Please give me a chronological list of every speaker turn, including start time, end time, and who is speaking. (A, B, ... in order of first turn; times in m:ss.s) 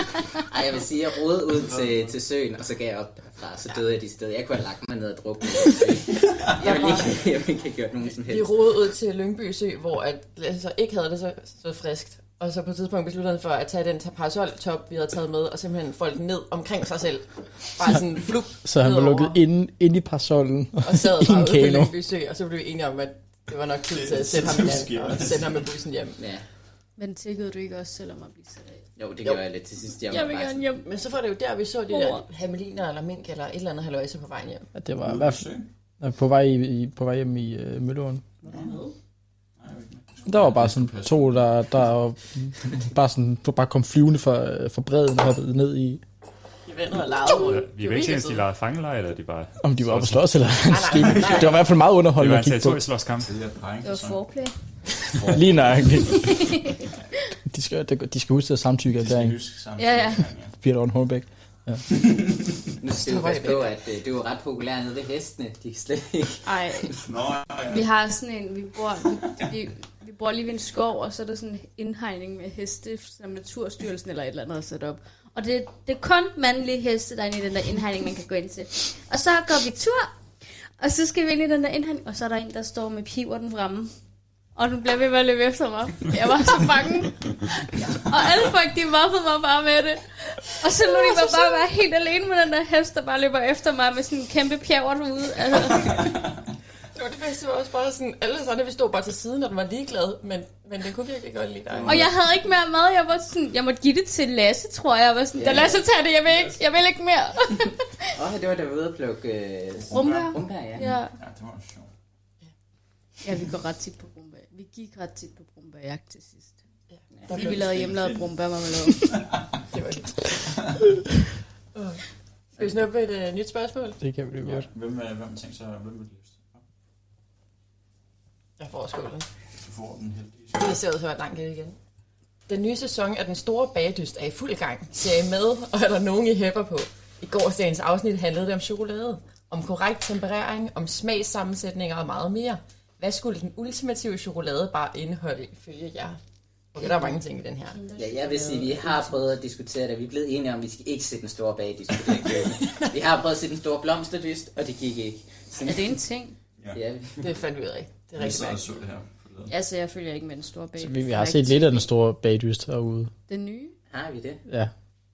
0:00.5-0:08.7 A
0:01.6-0:02.0 B
0:06.5-0:07.3 C
0:08.2-0:19.4 C
0:18.6-0:21.9 D
0:20.8-0:26.2 C
0:23.9-0:25.6 B
0:26.2-0:26.4 A
0:27.0-0:28.8 E
0:29.0-0:30.6 A
0:30.1-0:30.9 E
0:30.8-0:34.7 C
0:31.9-0:32.2 E
0:34.8-0:35.4 D
0:35.0-0:35.6 B
0:36.0-0:38.3 D
0:38.5-0:38.9 C
0:39.6-0:41.6 B
0:40.2-0:46.0 D
0:46.7-0:48.4 C
0:47.3-0:50.2 F
0:49.6-0:52.8 D
0:50.7-0:51.7 C
0:52.1-0:53.3 F
0:53.2-0:54.2 B
0:53.8-0:54.5 E
0:55.1-0:56.3 B
0:55.2-0:56.3 D
0:56.0-0:56.8 E
0:57.4-0:59.4 D
0:59.0-1:00.5 B
0:59.8-1:00.2 E
1:00.6-1:01.8 D
1:01.9-1:02.4 B
1:02.8-1:06.9 A
1:02.9-1:03.7 C
1:06.4-1:06.9 E
1:07.0-1:07.9 B
1:07.6-1:20.1 E
1:20.8-1:23.9 E
1:24.6-1:36.2 E
1:31.0-1:31.6 C
1:36.9-1:42.1 C
1:41.7-1:42.1 B
1:41.8-1:47.8 E
1:45.4-1:45.7 A
1:48.1-1:50.9 A
1:49.8-1:50.4 B
1:49.9-1:51.1 E
1:50.9-1:51.9 B
1:53.2-1:56.6 E
1:56.9-1:57.8 C
1:57.3-1:59.2 E
1:57.6-1:58.3 B
1:59.7-2:00.5 C
2:01.7-2:02.0 C
2:02.6-2:04.0 C
2:04.0-2:04.7 D
2:04.4-2:06.6 B
2:08.6-2:09.3 C
2:09.6-2:10.8 B
2:10.5-2:11.8 C
2:12.5-2:26.2 C
2:26.7-2:28.0 C
2:27.7-2:28.7 E
2:28.0-2:36.0 A
2:28.6-2:29.2 C
2:32.5-2:32.9 C
2:35.6-2:36.4 E
2:36.7-2:37.3 A
2:37.2-2:38.7 C
2:38.2-2:39.5 B
2:39.5-2:41.9 E
2:40.8-2:43.1 D
2:43.3-2:43.7 E
2:43.9-2:44.4 A